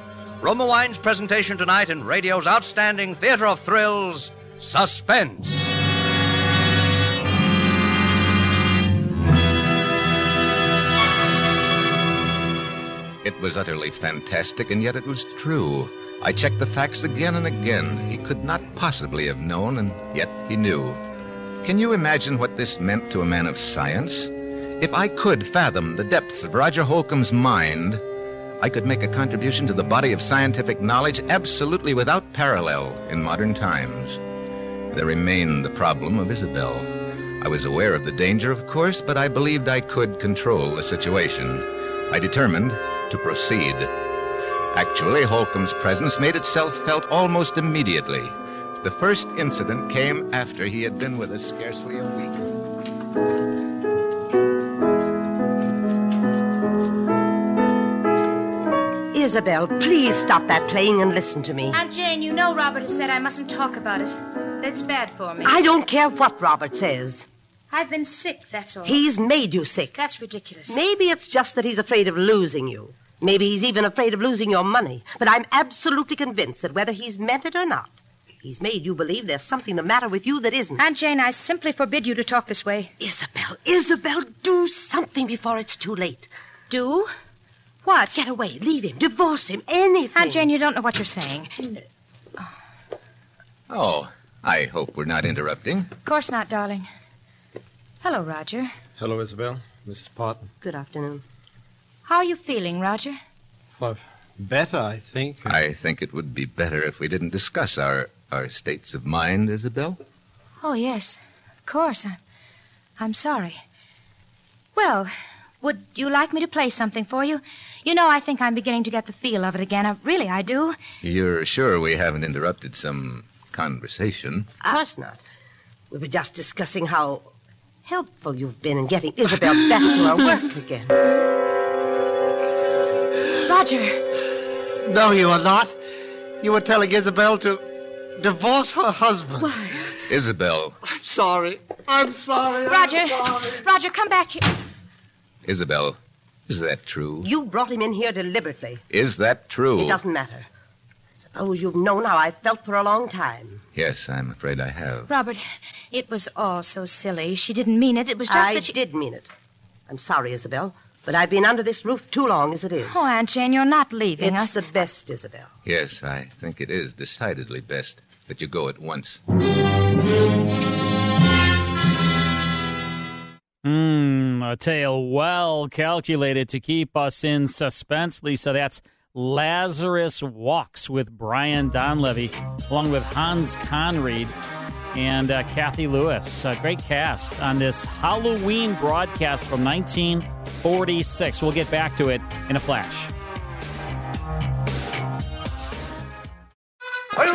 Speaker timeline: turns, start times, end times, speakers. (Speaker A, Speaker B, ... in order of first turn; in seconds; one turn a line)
Speaker A: 0.4-5.8
Speaker B: 13.2-21.0
Speaker B: 21.6-28.0
Speaker B: 28.6-34.2
Speaker B: 34.9-43.9
Speaker B: 44.7-52.4
Speaker C: 59.1-61.8
Speaker D: 61.7-65.6
Speaker C: 65.4-67.3
Speaker D: 67.7-69.0
Speaker C: 68.8-70.0
Speaker D: 70.0-70.8
Speaker C: 70.7-80.8
Speaker D: 80.8-82.9
Speaker C: 83.0-86.3
Speaker D: 86.7-87.1
Speaker D: 87.8-88.2
Speaker C: 88.1-90.5
Speaker D: 90.1-91.7
Speaker B: 93.7-95.9
Speaker D: 96.0-96.9
Speaker D: 98.0-98.7
Speaker E: 99.0-100.5
Speaker C: 100.6-101.2
Speaker D: 102.1-103.2
Speaker E: 103.8-105.5
Speaker B: 105.5-110.0
Speaker D: 110.6-112.2
Speaker D: 113.0-113.6
Speaker D: 114.8-120.8
Speaker B: 121.0-124.5
Speaker C: 124.6-125.2
Speaker C: 125.9-127.3
Speaker C: 127.8-130.9
Speaker D: 133.5-134.0
Speaker E: 134.8-135.7
Speaker E: 136.4-137.6
Speaker E: 138.2-139.6
Speaker B: 140.1-140.8
Speaker E: 140.8-143.5
Speaker D: 142.7-144.6
Speaker B: 145.4-146.0
Speaker B: 146.5-147.3
Speaker C: 147.2-148.8
Speaker B: 148.9-150.0
Speaker C: 149.8-150.5
Speaker C: 151.2-153.6
Speaker B: 153.8-155.1
Speaker D: 155.1-158.7
Speaker C: 158.3-159.3
Speaker C: 159.9-163.1
Speaker D: 162.9-164.6
Speaker C: 164.2-165.5
Speaker B: 165.7-169.2
Speaker F: 173.6-184.3
Speaker F: 184.9-193.1